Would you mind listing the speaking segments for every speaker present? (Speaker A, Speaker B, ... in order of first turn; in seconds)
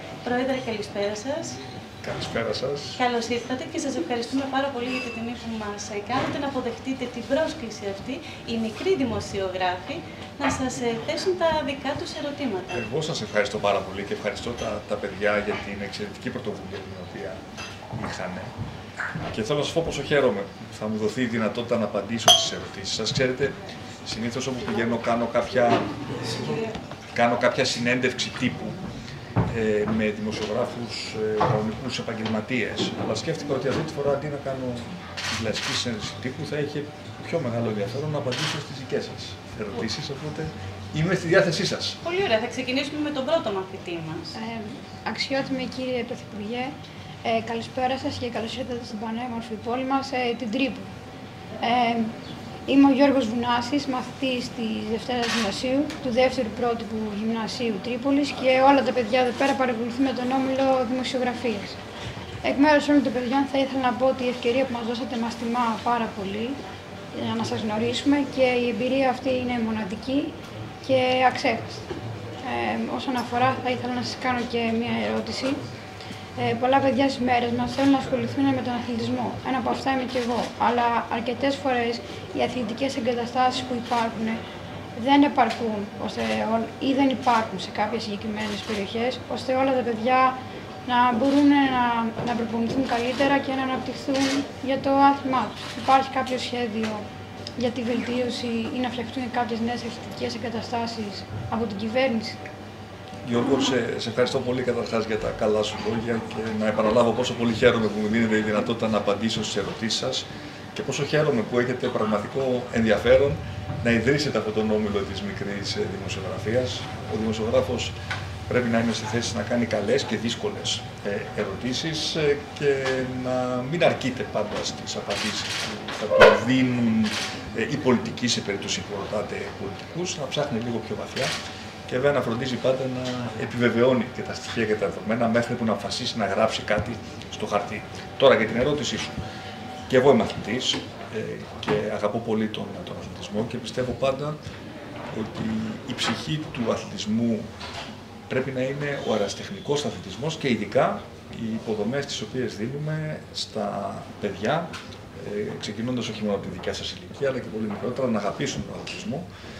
Speaker A: 0.2-1.6, 3.0-12.8, 42.0-44.3
Speaker B: 2.0-3.0, 12.7-17.4, 17.9-18.5, 19.2-28.8, 29.5-42.0, 103.2-117.9, 118.5-131.3, 131.9-139.2, 139.9-144.4, 145.1-147.5, 148.3-159.3
Speaker C: 44.3-46.7, 47.2-50.9, 51.6-52.1, 52.7-61.8, 62.4-66.6, 67.1-71.8, 72.4-75.6, 76.4-84.4, 85.0-97.0, 97.6-102.4